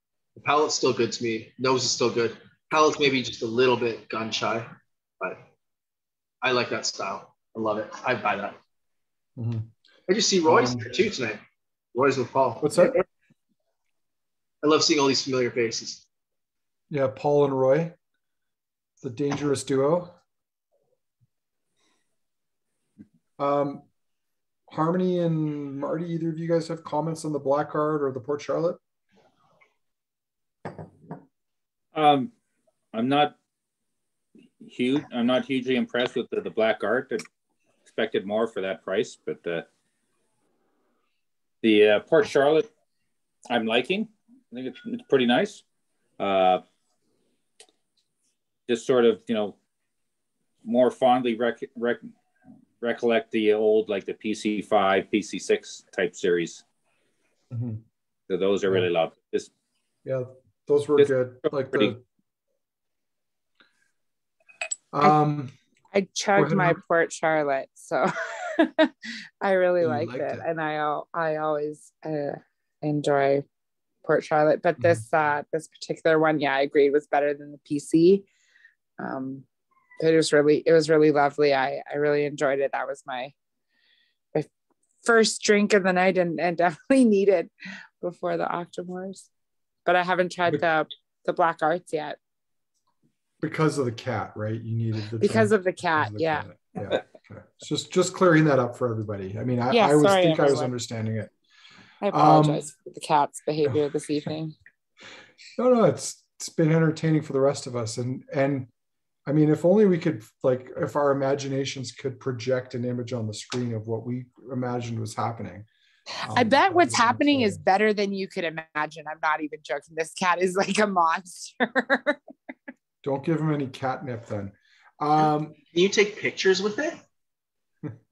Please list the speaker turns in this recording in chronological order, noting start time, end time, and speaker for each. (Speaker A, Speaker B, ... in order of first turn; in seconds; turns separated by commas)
Speaker A: 0.4-5.5, Speaker A: 6.4-8.6, Speaker B: 9.4-9.7, Speaker A: 10.1-11.4, Speaker B: 10.4-11.0, Speaker A: 11.9-13.0, Speaker B: 12.6-13.0, Speaker A: 14.6-16.1, Speaker B: 16.9-17.9, Speaker B: 19.0-20.1, Speaker B: 23.4-23.9, Speaker B: 24.7-28.8, Speaker C: 31.9-32.3, Speaker C: 32.9-33.4, Speaker C: 34.6-37.2, Speaker C: 37.9-39.7, Speaker C: 41.6-42.7, Speaker C: 43.5-45.6, Speaker C: 46.2-46.6, Speaker C: 48.7-49.6, Speaker C: 50.6-52.1, Speaker C: 52.8-56.6, Speaker B: 57.5-57.8, Speaker C: 58.3-59.5, Speaker B: 60.0-62.0, Speaker B: 64.9-65.5, Speaker D: 65.9-73.5, Speaker B: 66.4-66.8, Speaker B: 69.8-70.5, Speaker D: 74.0-78.3, Speaker B: 74.8-75.0, Speaker D: 79.0-79.5, Speaker D: 80.0-83.3, Speaker D: 85.0-89.3, Speaker D: 89.9-92.2, Speaker B: 93.4-101.3, Speaker D: 95.2-96.5, Speaker D: 99.7-100.7, Speaker D: 102.0-104.5, Speaker B: 102.1-102.7, Speaker B: 105.6-108.7, Speaker B: 109.3-115.7, Speaker B: 116.2-117.6, Speaker D: 116.3-122.2, Speaker B: 123.0-125.6, Speaker A: 125.7-127.0